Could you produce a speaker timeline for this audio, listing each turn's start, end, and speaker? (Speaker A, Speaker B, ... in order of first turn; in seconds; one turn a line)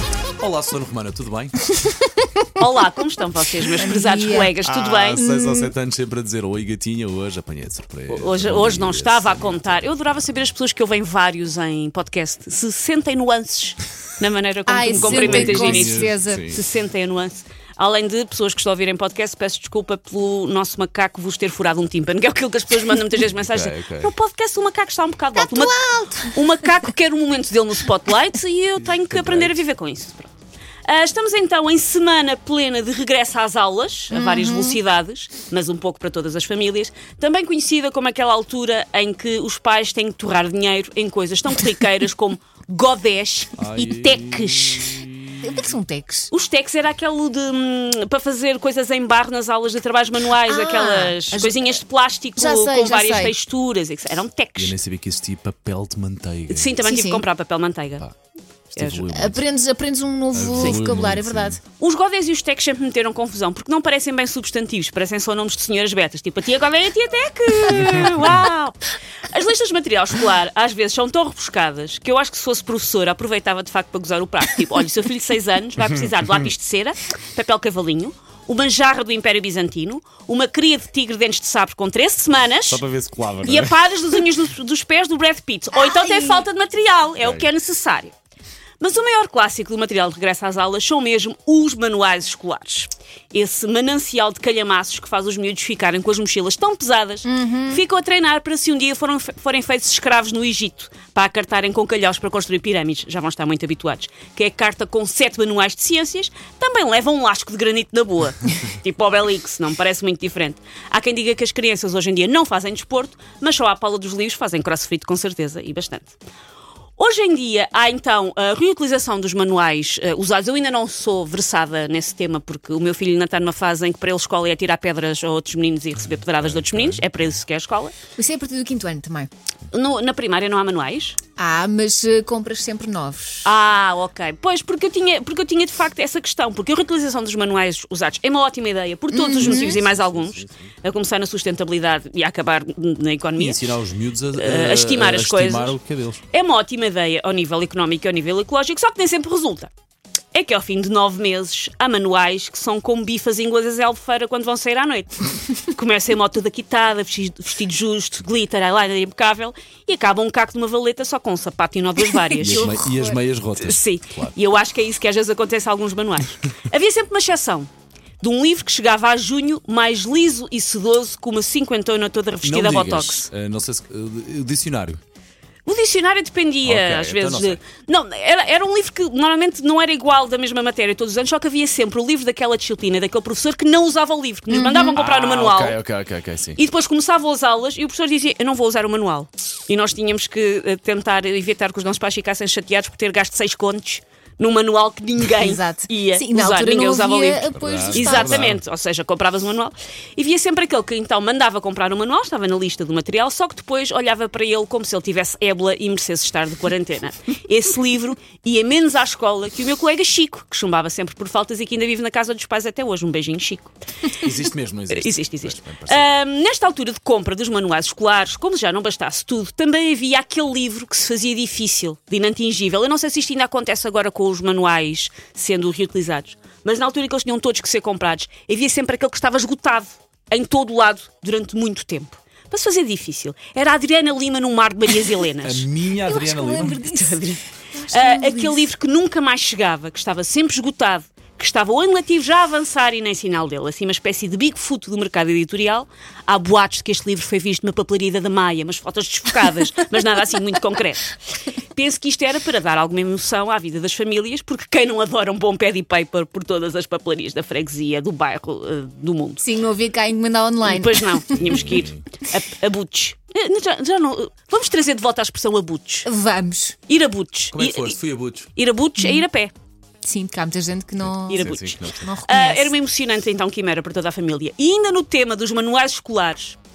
Speaker A: 0.4-1.7
Speaker B: 2.6-5.2
Speaker C: 3.7-4.6
Speaker A: 4.6-9.8
Speaker C: 5.2-5.7
Speaker B: 8.1-25.8
Speaker C: 14.7-16.5
Speaker A: 14.9-16.6
Speaker A: 23.3-24.1
Speaker C: 25.4-26.4
Speaker B: 26.3-30.3
Speaker A: 28.8-29.6
Speaker B: 30.9-45.0
Speaker C: 34.1-34.8
Speaker A: 43.6-45.5
Speaker C: 45.4-46.3
Speaker B: 46.3-54.7
Speaker C: 50.4-51.8
Speaker C: 52.4-53.3
Speaker A: 54.6-56.8
Speaker B: 56.5-58.0
Speaker C: 56.8-57.2
Speaker A: 58.7-59.4
Speaker B: 58.8-59.0
Speaker C: 59.1-61.6
Speaker A: 60.3-61.6
Speaker B: 61.8-82.8
Speaker A: 82.7-83.8
Speaker B: 83.4-88.1
Speaker C: 85.9-86.4
Speaker A: 87.2-87.5
Speaker B: 88.8-116.2
Speaker C: 97.2-97.8
Speaker B: 117.0-127.9
Speaker A: 126.3-127.1
Speaker C: 128.2-129.3
Speaker B: 129.7-131.2
Speaker C: 131.4-133.5
Speaker B: 133.4-143.6
Speaker C: 139.1-139.8
Speaker A: 139.4-140.7
Speaker A: 143.3-146.2
Speaker B: 144.3-145.8
Speaker B: 146.3-149.7
Speaker B: 150.3-162.8
Speaker A: 162.4-164.3
Speaker C: 162.4-163.2
Speaker B: 163.6-173.3
Speaker A: 172.4-175.0
Speaker B: 175.7-185.8
Speaker A: 176.6-177.6
Speaker C: 184.5-184.9
Speaker A: 184.9-186.6
Speaker B: 186.6-213.7
Speaker C: 195.4-198.5
Speaker A: 197.5-198.6
Speaker A: 214.2-216.1
Speaker B: 214.9-235.7
Speaker A: 235.4-236.8
Speaker C: 236.0-238.7
Speaker B: 236.5-259.4
Speaker C: 259.4-261.7
Speaker B: 260.6-266.1
Speaker A: 261.4-262.0
Speaker C: 266.1-266.8
Speaker B: 266.9-268.0
Speaker A: 267.5-268.5
Speaker B: 268.5-269.5
Speaker C: 269.0-269.2
Speaker C: 270.0-272.7
Speaker A: 271.3-272.1
Speaker B: 271.3-276.6